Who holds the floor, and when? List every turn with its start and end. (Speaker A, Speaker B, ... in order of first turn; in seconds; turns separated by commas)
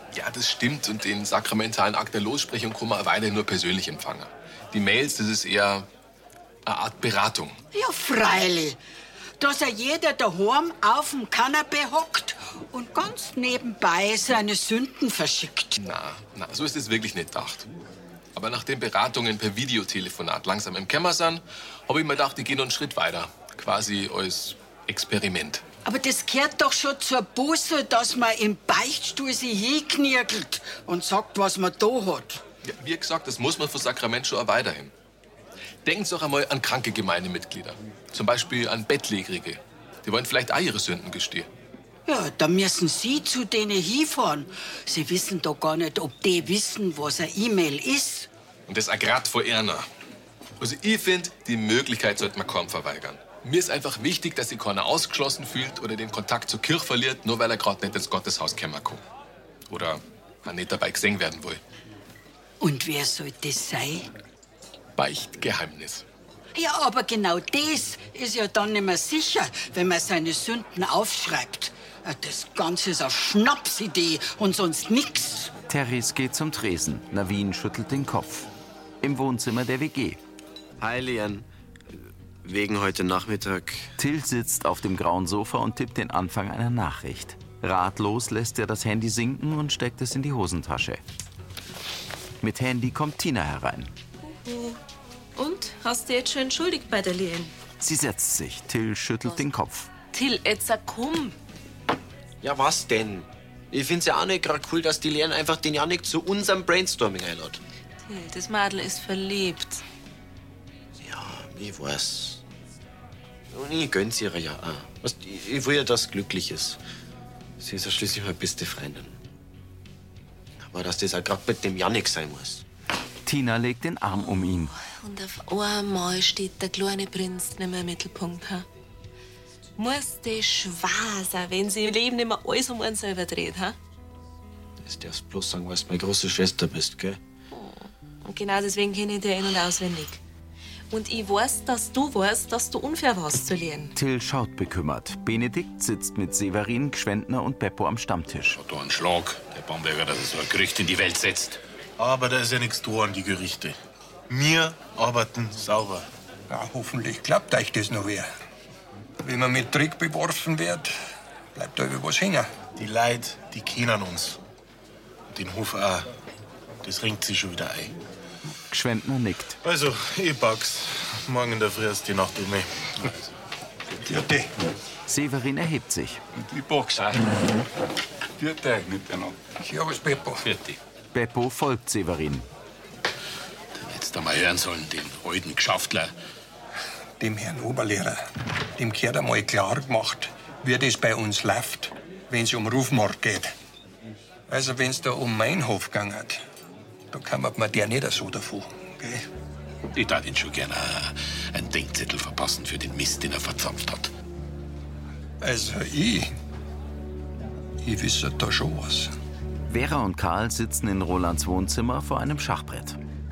Speaker A: 0.1-5.9, Speaker A: 6.7-7.6, Speaker B: 7.7-8.8, Speaker B: 9.4-15.7, Speaker A: 15.8-17.7, Speaker A: 18.3-25.6, Speaker B: 25.8-32.4, Speaker A: 32.7-34.9, Speaker A: 35.8-41.5, Speaker B: 42.1-48.3, Speaker A: 48.7-49.9, Speaker A: 50.6-59.0, Speaker A: 59.7-61.6, Speaker B: 62.6-64.1, Speaker A: 65.0-66.0, Speaker B: 66.5-75.5, Speaker C: 75.7-78.5, Speaker C: 79.0-80.2, Speaker D: 80.8-81.5, Speaker D: 82.4-83.9, Speaker C: 84.0-91.0, Speaker C: 92.4-93.9, Speaker E: 94.2-94.8, Speaker E: 95.3-97.5, Speaker C: 97.8-99.9, Speaker E: 100.1-101.3, Speaker D: 102.4-107.6, Speaker E: 108.0-109.8, Speaker D: 111.0-112.4, Speaker D: 113.5-116.8, Speaker D: 117.6-119.2, Speaker D: 120.6-122.6, Speaker C: 123.2-124.7, Speaker E: 124.5-128.7, Speaker E: 129.8-133.8, Speaker D: 134.8-137.2, Speaker E: 137.5-140.2, Speaker E: 140.9-143.9, Speaker C: 143.9-148.6, Speaker F: 148.5-151.6, Speaker G: 152.0-153.8, Speaker G: 154.3-156.1, Speaker H: 156.5-158.3, Speaker H: 159.2-160.9, Speaker H: 161.5-162.5, Speaker G: 162.8-164.4, Speaker G: 165.3-166.1, Speaker G: 166.8-167.9, Speaker C: 168.7-169.6, Speaker G: 169.6-173.2, Speaker H: 174.1-174.4, Speaker C: 175.1-176.2, Speaker G: 176.3-177.4, Speaker G: 178.4-179.4, Speaker H: 179.6-180.4, Speaker F: 180.4-180.8, Speaker C: 181.1-182.5, Speaker F: 183.7-186.1, Speaker H: 187.2-188.2, Speaker H: 188.8-193.5, Speaker H: 194.5-196.4, Speaker H: 197.1-199.2, Speaker F: 199.9-204.1, Speaker H: 205.4-206.3, Speaker H: 207.8-209.1, Speaker C: 209.7-213.0